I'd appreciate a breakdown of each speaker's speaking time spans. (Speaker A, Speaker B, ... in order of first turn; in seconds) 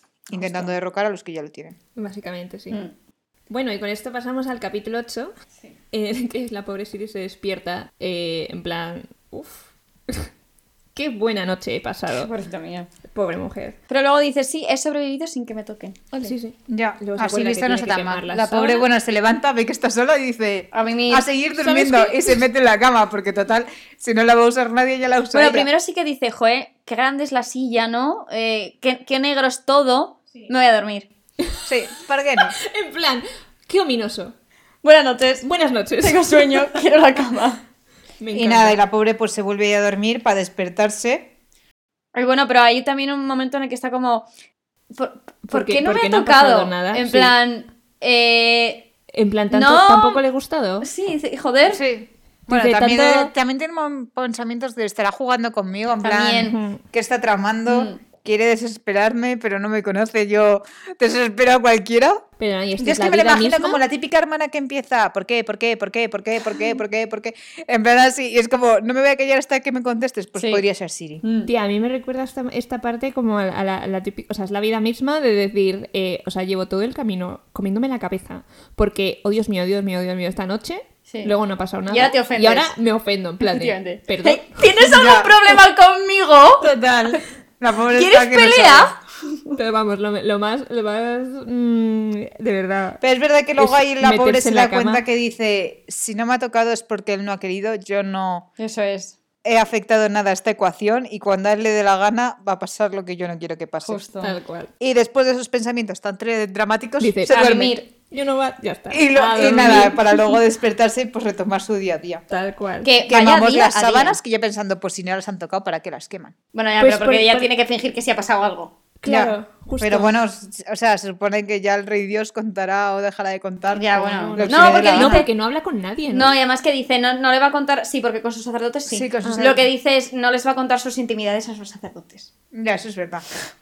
Speaker A: 0.3-1.8, 16.7-25.7, 31.6-32.5, 38.3-41.3, 51.6-62.2, 62.8-71.2, 84.8-85.3, 86.6-88.9, 93.0-98.5, 99.4-104.0, 104.8-107.8, 108.9-112.2, 113.1-116.3, 119.1-125.2, 128.9-129.7, 132.5-133.2
Speaker B: 0.4-0.7, 12.1-12.9, 13.9-16.3, 20.7-21.2, 25.3-31.1, 34.8-35.5, 36.0-37.6, 42.1-44.3, 44.9-48.9, 49.5-50.2, 50.8-51.8, 56.0-56.6, 57.7-58.0, 70.3-70.6, 71.2-71.5, 81.1-81.3, 81.9-82.7, 83.4-86.7, 87.9-89.5, 98.6-99.1, 103.8-104.3, 107.3-107.8, 109.2-110.0, 112.8-114.2, 116.5-118.7, 123.7-125.3, 126.1-132.3
Speaker C: 1.9-2.8, 3.5-5.3, 5.9-10.3, 10.9-12.3, 13.1-13.8, 16.2-18.8, 21.6-22.4, 32.5-34.3, 35.4-36.8, 38.2-38.8, 45.5-47.3, 49.1-50.9, 52.5-53.3, 56.5-56.8, 62.4-63.8, 71.5-84.8, 89.5-93.0, 93.6-95.0, 104.2-104.7, 107.0-110.0, 112.3-112.9, 116.8-117.5, 119.0-120.1, 124.1-126.3